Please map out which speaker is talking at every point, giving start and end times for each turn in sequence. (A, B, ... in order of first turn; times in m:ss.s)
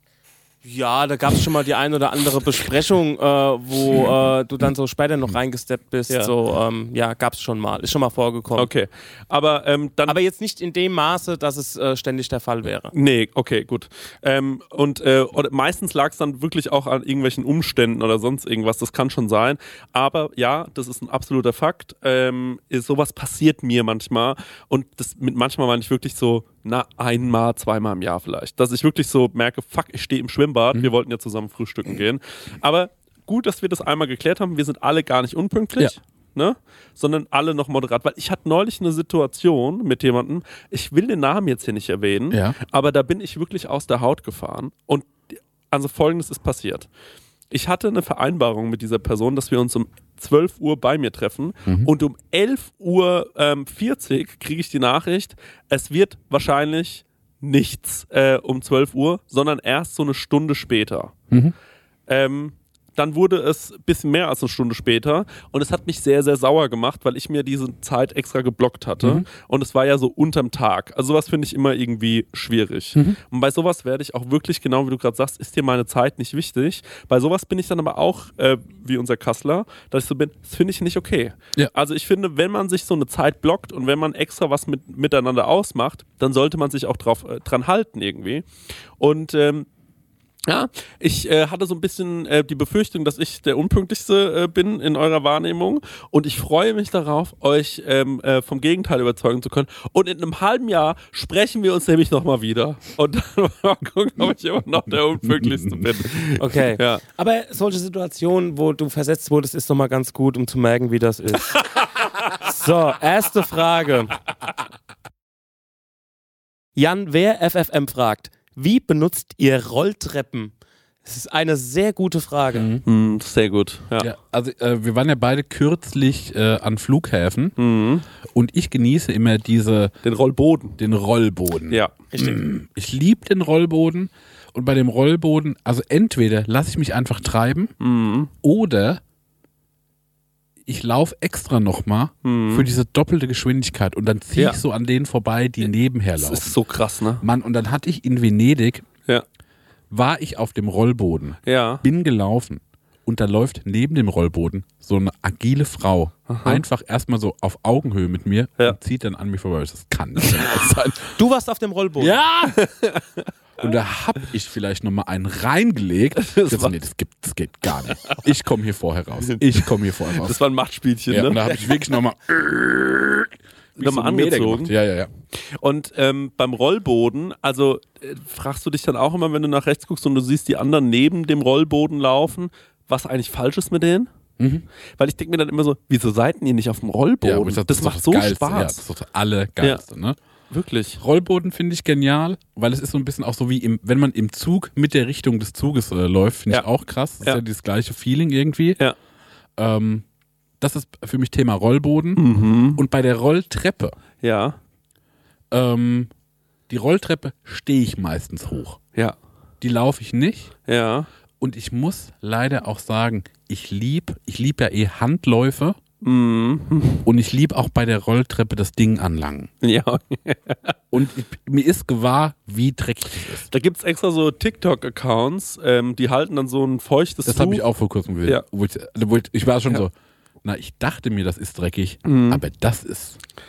0:00.6-0:08.7 A
0:08.5-0:10.2 B
0:10.1-0:12.9 A
0:12.9-0:46.9 B
0:42.3-0:42.6 C
0:47.5-1:01.1 B
1:02.1-1:28.5 B
1:29.0-1:29.7 B
1:30.5-1:47.0 B
1:45.2-1:45.8 C
1:46.4-1:54.2 A
1:56.8-2:00.5 A
2:01.0-2:02.7 A
2:02.5-2:02.8 C
2:02.8-2:04.1 B
2:04.0-2:07.6 C
2:07.6-2:08.0 B
2:08.3-2:09.9 C
2:10.0-2:10.8 B
2:10.8-2:17.7 C
2:11.7-2:12.1 B
2:17.8-2:18.3 B
2:18.4-2:19.0 C
2:20.6-2:26.6 C
2:22.2-2:22.7 B
2:26.2-2:27.2 B
2:27.2-2:28.8 C
2:29.9-2:41.1 C
2:31.4-2:31.8 B
2:36.3-2:36.6 B
2:41.1-2:42.2 A
2:42.0-2:43.3 B
2:43.6-2:50.4 C
2:46.2-2:46.7 B
2:50.1-2:51.5 B
2:51.1-2:55.1 C
2:53.8-2:54.7 B
2:55.3-3:04.1 B
3:04.4-3:04.6 C
3:05.0-3:08.8 B
3:07.2-3:10.2 C
3:10.5-3:11.0 B
3:11.0-3:18.8 C
3:19.6-3:20.0 C
3:20.6-3:23.9 C
3:22.2-3:22.8 B
3:24.2-3:24.6 B
3:25.5-3:26.1 C
3:26.7-3:28.8 C
3:29.6-3:30.5 C
3:30.7-3:31.1 B
3:31.4-3:35.8 C
3:36.0-3:37.0 B
3:37.0-3:39.5 C
3:39.6-3:40.7 B
3:40.9-3:43.5 C
3:43.5-3:47.6 B
3:47.2-3:49.9 C
3:50.4-3:53.2 C
3:52.0-3:52.4 B